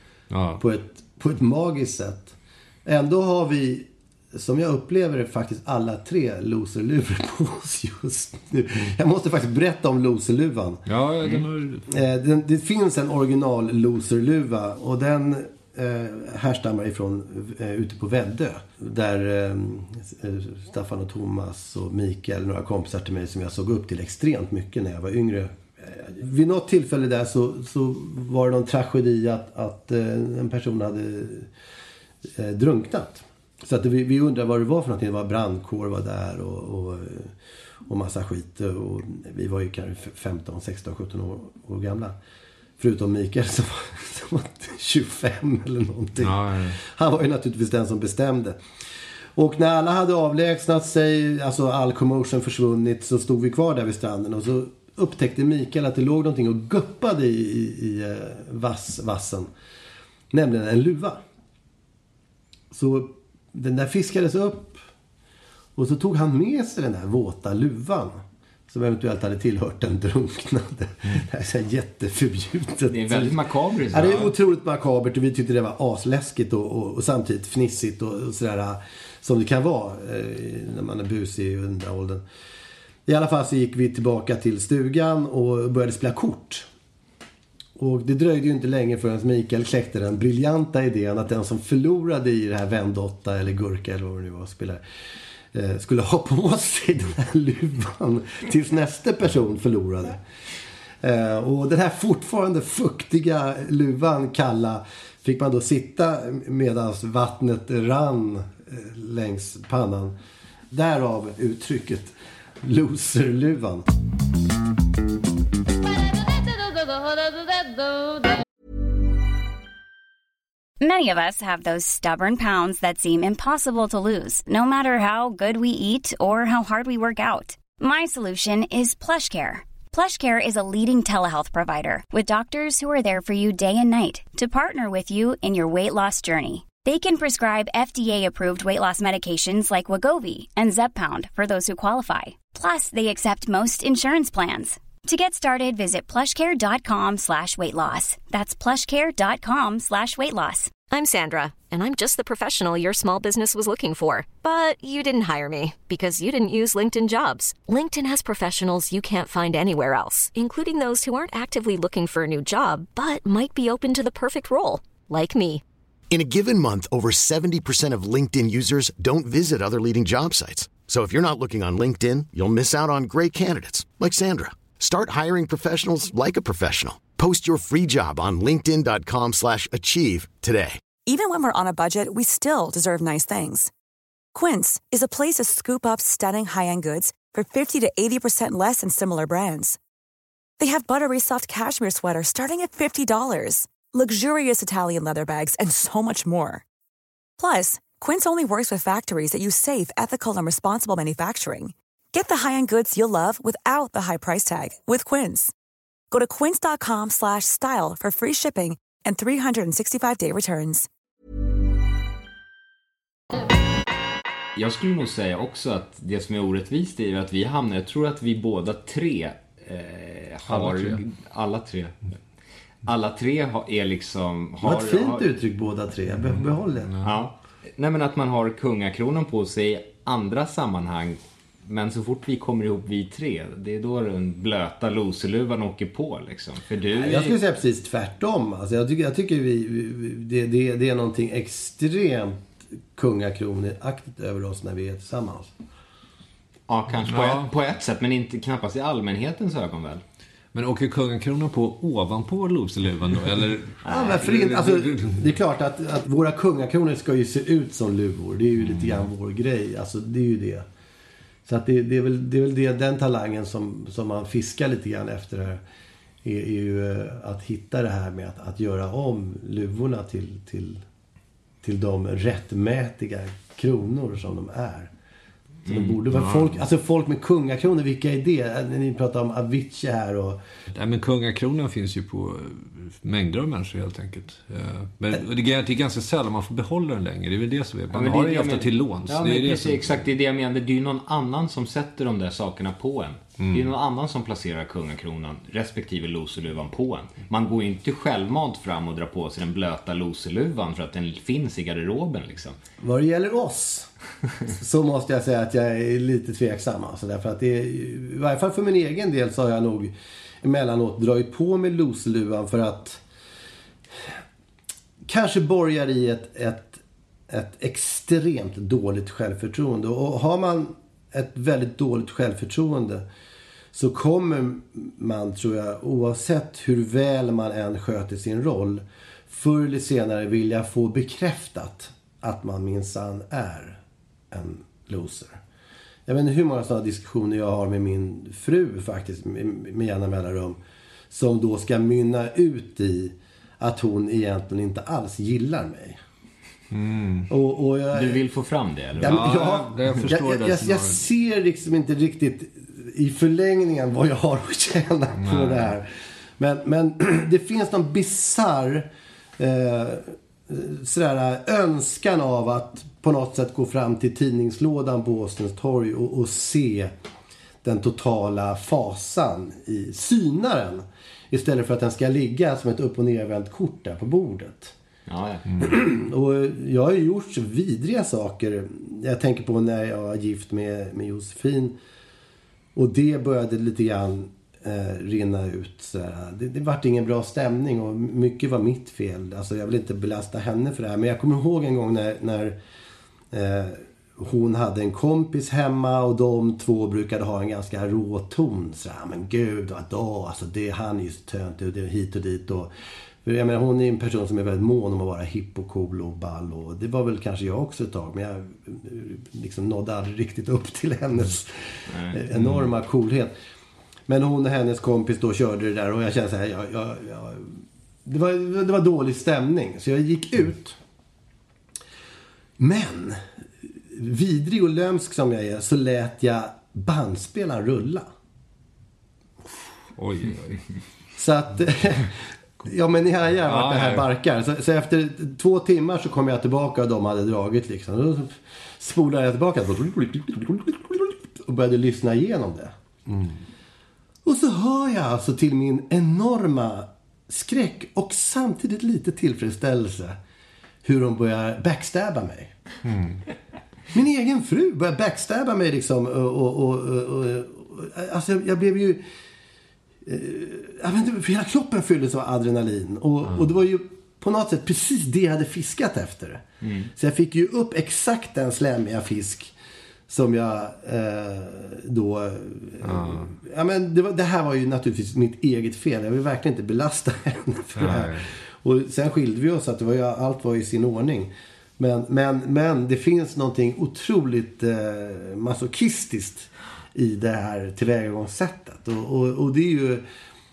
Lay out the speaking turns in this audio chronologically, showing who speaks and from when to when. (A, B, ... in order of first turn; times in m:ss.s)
0:00.3-0:00.6 A
0:00.6-0:10.8 B
0:10.9-0:11.9 A
0:11.9-0:31.5 B
0:32.3-0:37.4 B
0:37.9-0:42.2 B
0:42.8-0:48.6 B
0:46.2-0:46.8 A
0:49.4-0:59.5 B
1:00.3-1:01.2 B
1:02.7-1:04.8 B
1:05.8-1:13.4 B
1:12.9-1:14.3 C
1:13.9-1:22.2 B
1:23.1-1:26.7 B
1:27.8-1:34.8 B
1:35.5-1:40.2 B
1:41.0-1:50.1 B
1:50.7-1:53.9 B
2:00.8-2:30.7 D
2:30.9-2:45.6 E
2:46.1-3:00.8 F
3:01.1-3:03.7 G
3:04.3-3:09.8 G
3:10.6-3:16.6 G
3:17.4-3:25.5 G
3:26.1-3:30.9 G
3:34.6-3:42.0 C
3:40.5-3:41.0 A
3:42.8-3:45.3 C
3:44.6-3:46.9 B
3:46.2-3:47.1 A
3:47.0-3:57.4 C
3:56.9-4:05.5 B
4:06.7-4:10.0 C
4:07.1-4:07.5 A
4:10.5-4:15.2 A
4:13.8-4:14.2 C
4:13.9-4:20.6 B
4:18.6-4:19.0 A
4:21.4-4:25.6 B
4:26.2-4:30.8 B
4:31.6-4:34.9 B
4:35.6-4:36.0 C
4:35.6-4:40.4 B
4:36.1-4:36.6 A
4:40.7-4:50.0 A
4:47.9-5:02.6 C
4:53.4-4:53.7 A
5:02.8-5:03.9 B
5:04.5-5:13.0 B
5:15.0-5:23.0 B
5:23.7-5:33.8 B
5:34.3-5:35.4 B
5:36.1-5:40.6 B
5:41.1-5:46.0 B
5:46.7-5:47.3 A
5:47.3-5:48.2 B
5:47.9-5:49.2 C
5:49.0-6:06.9 B
5:49.0-5:51.0 A
5:55.2-5:55.7 A
6:07.6-6:14.8 B
6:15.1-6:15.4 C
6:15.6-6:21.8 B
6:22.7-6:32.6 B
6:33.3-6:42.7 B
6:43.2-6:53.3 B
6:51.9-6:52.2 C
6:54.1-7:00.8 B
7:02.6-7:08.1 B
7:10.0-7:10.6 A
7:11.2-7:22.7 B
7:13.5-7:14.1 A
7:23.1-7:23.4 A
7:24.2-7:30.2 B
7:30.8-7:32.6 B
7:32.8-7:33.2 A
7:33.9-7:39.0 B
7:40.0-7:46.4 B
7:46.6-7:46.9 C
7:47.0-7:49.5 B
7:50.1-8:10.0 B
7:52.8-7:53.3 A
7:57.7-7:58.3 A